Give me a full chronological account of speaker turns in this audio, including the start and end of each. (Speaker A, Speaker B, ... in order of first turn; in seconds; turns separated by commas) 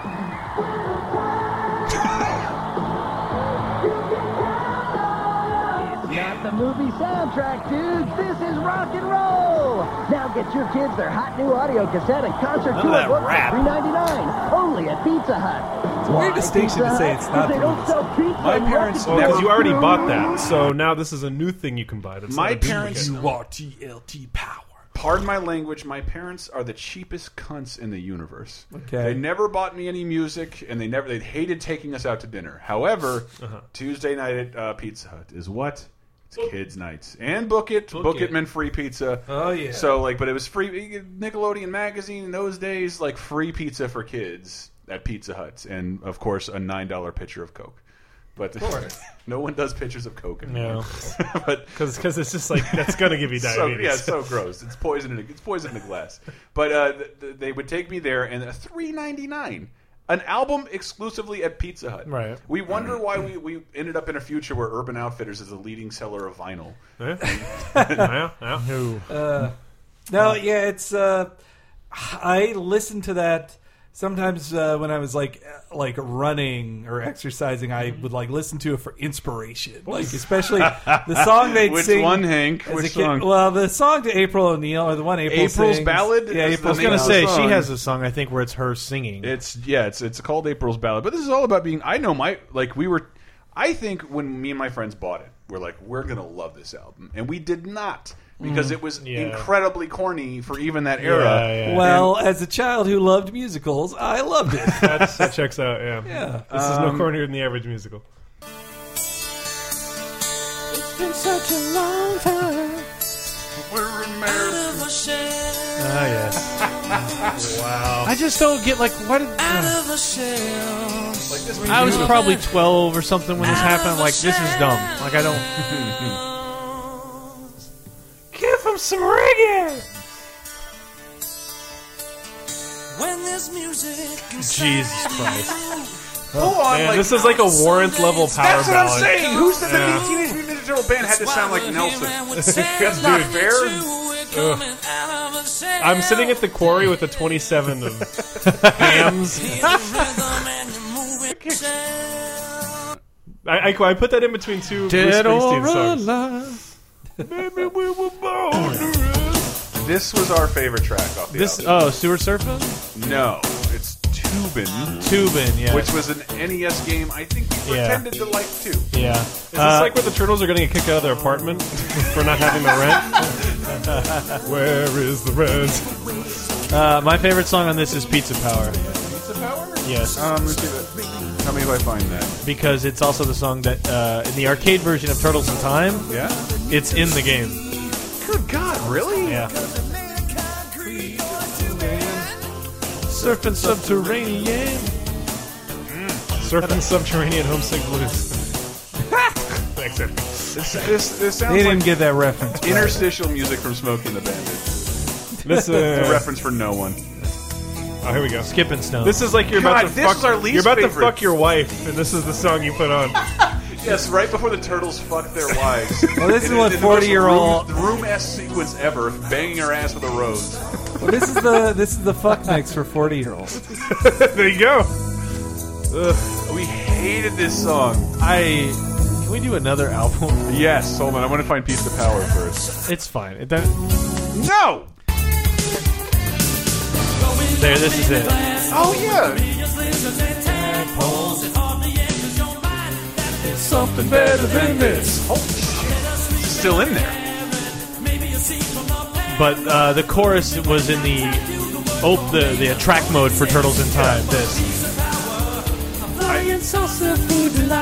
Speaker A: 4.3-19.6, Speaker B: 12.7-13.7, Speaker C: 16.0-18.0, Speaker D: 18.4-20.2, Speaker E: 19.0-23.1, Speaker D: 22.3-23.4, Speaker C: 22.6-24.8, Speaker D: 24.9-47.8, Speaker C: 28.7-29.2, Speaker C: 39.3-40.0, Speaker D: 48.4-52.0, Speaker C: 48.6-48.9, Speaker B: 50.5-50.9, Speaker E: 51.7-54.2, Speaker D: 52.6-68.1, Speaker B: 62.0-62.4, Speaker E: 67.0-68.6, Speaker B: 68.6-69.1, Speaker C: 69.1-69.5, Speaker C: 70.1-71.3, Speaker C: 71.9-87.4, Speaker D: 79.9-83.3, Speaker D: 85.2-87.7, Speaker B: 86.7-89.3, Speaker D: 89.2-102.2, Speaker C: 98.4-98.7, Speaker B: 99.0-99.5, Speaker B: 101.0-101.9, Speaker C: 101.6-105.3, Speaker E: 104.8-108.0, Speaker C: 106.0-106.4, Speaker D: 106.5-107.2, Speaker B: 110.7-112.9, Speaker D: 113.6-114.8, Speaker F: 114.2-116.0, Speaker B: 115.8-116.6, Speaker E: 117.3-118.1, Speaker B: 118.0-119.8, Speaker F: 119.4-121.3, Speaker D: 121.3-122.3, Speaker B: 121.7-125.5, Speaker C: 121.7-122.0, Speaker F: 122.2-122.5, Speaker F: 123.6-125.2, Speaker D: 125.5-126.2, Speaker F: 126.0-127.2, Speaker E: 128.3-129.7, Speaker F: 132.9-135.9, Speaker B: 134.4-135.6, Speaker D: 136.3-137.3, Speaker E: 136.4-140.1, Speaker F: 137.2-138.3, Speaker D: 138.3-143.9, Speaker F: 139.2-140.3, Speaker F: 141.0-146.5, Speaker E: 142.3-143.3, Speaker E: 144.3-144.7, Speaker E: 145.8-149.7, Speaker B: 148.5-148.8, Speaker F: 149.4-152.4, Speaker E: 153.4-156.1, Speaker B: 154.9-156.6, Speaker E: 157.2-159.5, Speaker B: 158.6-158.8, Speaker D: 159.7-161.7, Speaker B: 161.3-162.8, Speaker D: 162.9-168.9, Speaker B: 165.0-165.9, Speaker B: 167.6-168.1, Speaker B: 168.9-170.0, Speaker E: 169.5-173.4, Speaker B: 173.8-174.3, Speaker E: 174.4-176.0, Speaker B: 176.7-178.8, Speaker D: 178.8-182.4, Speaker B: 179.8-180.2, Speaker B: 182.4-186.1, Speaker D: 186.1-186.6, Speaker B: 186.7-187.6, Speaker D: 188.2-189.5, Speaker B: 189.2-189.5, Speaker C: 190.7-192.3, Speaker B: 193.1-194.9, Speaker D: 193.2-193.6, Speaker D: 195.9-196.3, Speaker E: 196.4-198.5, Speaker E: 199.7-200.6, Speaker D: 200.5-205.0, Speaker C: 201.4-203.1, Speaker E: 205.4-206.3, Speaker D: 205.8-207.0, Speaker E: 208.0-213.2, Speaker B: 208.4-209.2, Speaker D: 209.5-211.2, Speaker D: 213.7-220.6, Speaker C: 216.1-217.7, Speaker C: 221.0-223.6, Speaker E: 223.7-224.9, Speaker E: 225.9-226.3, Speaker D: 226.4-228.1, Speaker B: 228.2-230.5, Speaker D: 230.4-232.8, Speaker B: 232.8-233.8, Speaker D: 234.3-234.9, Speaker F: 237.2-243.6, Speaker B: 237.6-238.4, Speaker D: 238.7-239.4, Speaker C: 240.5-241.5, Speaker B: 243.6-245.2, Speaker D: 243.9-247.2, Speaker F: 244.3-245.0, Speaker F: 247.3-249.9, Speaker B: 249.3-254.7, Speaker F: 251.2-253.8, Speaker D: 253.9-254.2, Speaker F: 254.5-255.6, Speaker F: 256.3-257.4